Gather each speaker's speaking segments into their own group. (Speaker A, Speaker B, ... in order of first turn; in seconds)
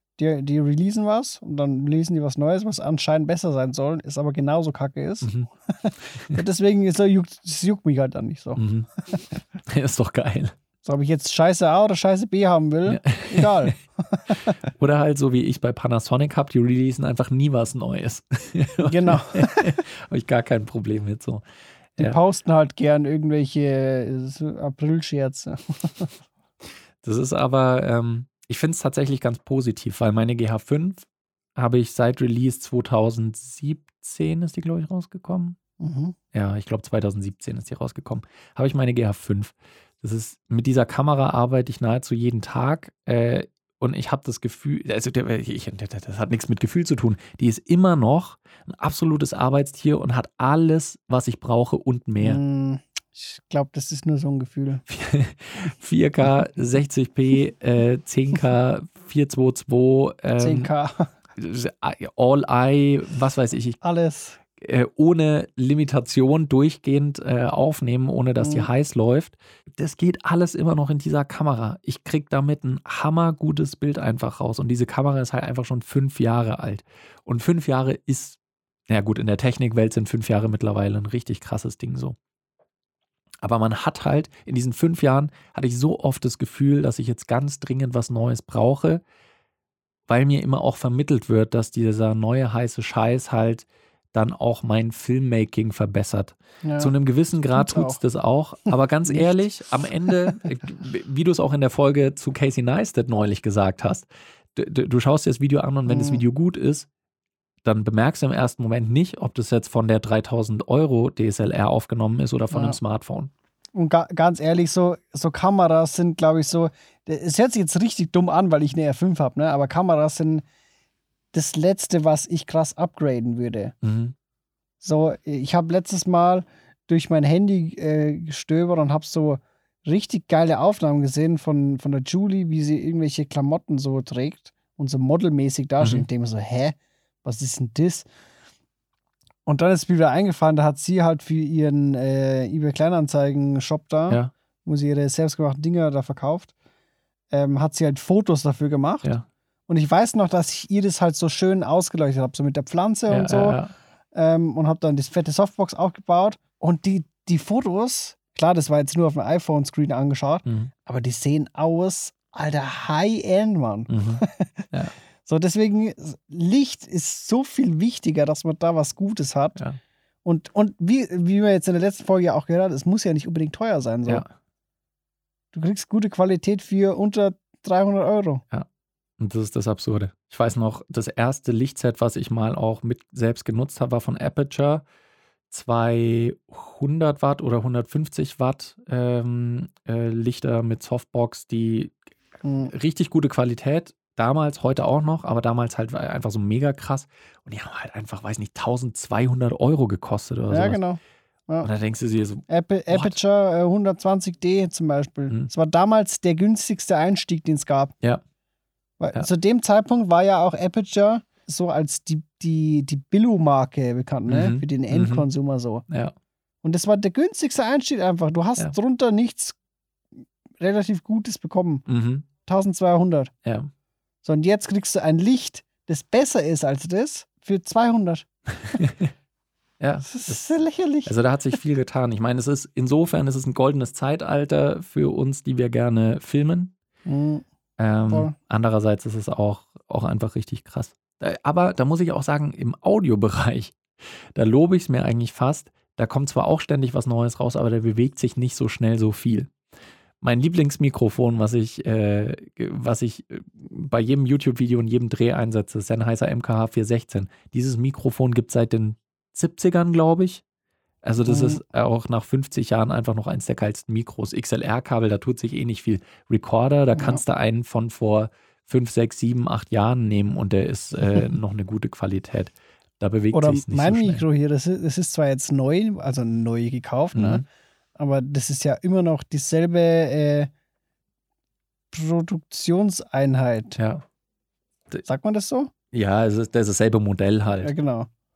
Speaker A: 0.2-8.6, 10.8-14.6, 18.9-19.8, 22.0-26.1, 35.8-36.1, 52.2-54.8, 60.4-61.1, 63.8-64.4, 68.4-68.7, 96.6-96.9, 97.5-98.0, 99.1-99.5, 105.8-106.2, 112.5-112.8, 113.7-120.4, 121.3-123.7, 124.8-138.1, 139.4-146.5, 147.3-149.1, 149.7-153.6, 154.1-164.7, 165.2-169.6, 170.2-174.2, 175.5-178.4, 192.4-192.7, 200.5-201.7, 202.5-207.9, 209.0-215.8, 216.6-219.6, 220.6-221.8, 222.4-223.3, 224.2-228.8, 230.1-231.1, 237.1-237.4, 261.2-261.6, 266.9-267.2, 273.3-277.4, 277.9-280.5, 281.9-283.8, 285.0-285.7, 287.6-288.1
Speaker B: 5.2-5.5, 8.6-10.5, 12.8-13.7, 14.7-21.4, 27.0-35.6, 36.3-52.4, 54.9-60.7, 61.4-63.8, 64.6-78.4, 78.9-82.2, 83.4-89.0, 90.1-106.9, 107.6-113.3, 123.8-124.1, 135.8-136.1, 153.1-153.7, 160.4-160.7, 163.9-164.9, 179.2-184.8, 185.5-191.9, 192.7-200.8, 201.6-203.2, 214.2-215.2, 215.9-216.1, 221.8-222.3, 223.4-223.7, 228.7-229.1, 229.8-230.5, 231.0-236.7, 237.8-243.8, 244.3-249.5, 250.2-260.4, 261.0-274.2, 277.1-277.4, 283.8-284.0, 285.9-287.7